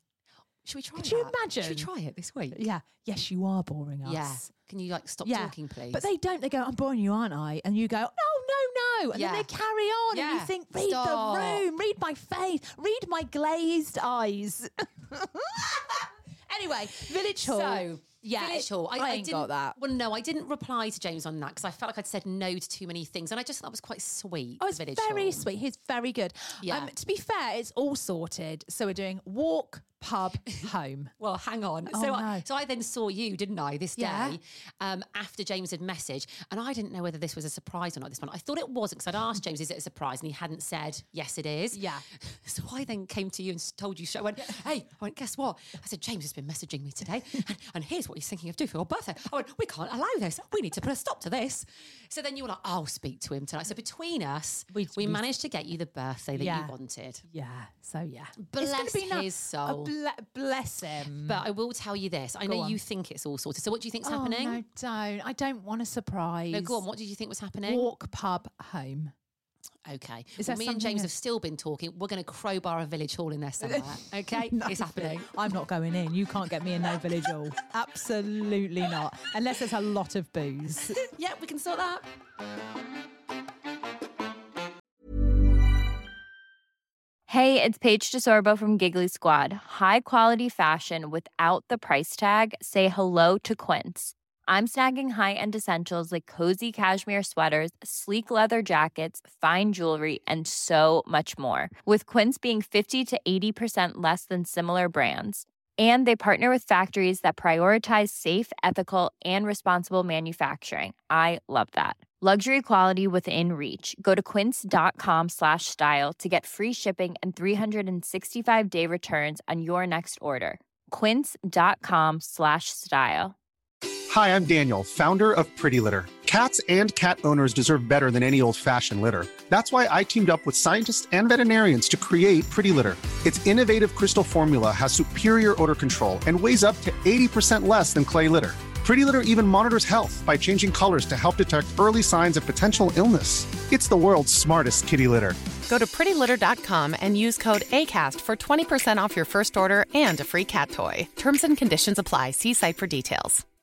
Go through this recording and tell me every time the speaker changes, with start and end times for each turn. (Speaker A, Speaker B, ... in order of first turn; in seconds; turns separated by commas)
Speaker A: 0.6-2.6, Speaker B: 1.0-1.9, Speaker B: 2.5-4.5, Speaker A: 4.0-6.0, Speaker B: 5.2-19.8, Speaker A: 9.1-9.5, Speaker A: 10.1-11.7, Speaker A: 16.9-25.4, Speaker B: 24.6-31.1, Speaker A: 26.6-26.9, Speaker A: 31.2-57.2, Speaker B: 31.9-32.4, Speaker B: 34.0-34.4, Speaker B: 41.7-42.0, Speaker B: 54.7-55.2, Speaker B: 56.4-56.7, Speaker B: 57.3-61.4, Speaker A: 58.4-59.9, Speaker A: 61.2-64.6, Speaker B: 62.5-62.8, Speaker B: 64.0-66.8, Speaker A: 66.5-67.9, Speaker B: 67.7-69.1, Speaker A: 69.8-75.3, Speaker B: 70.4-71.1, Speaker B: 73.6-81.0, Speaker A: 81.0-82.1, Speaker C: 87.3-123.3, Speaker D: 124.1-145.4, Speaker E: 145.7-153.4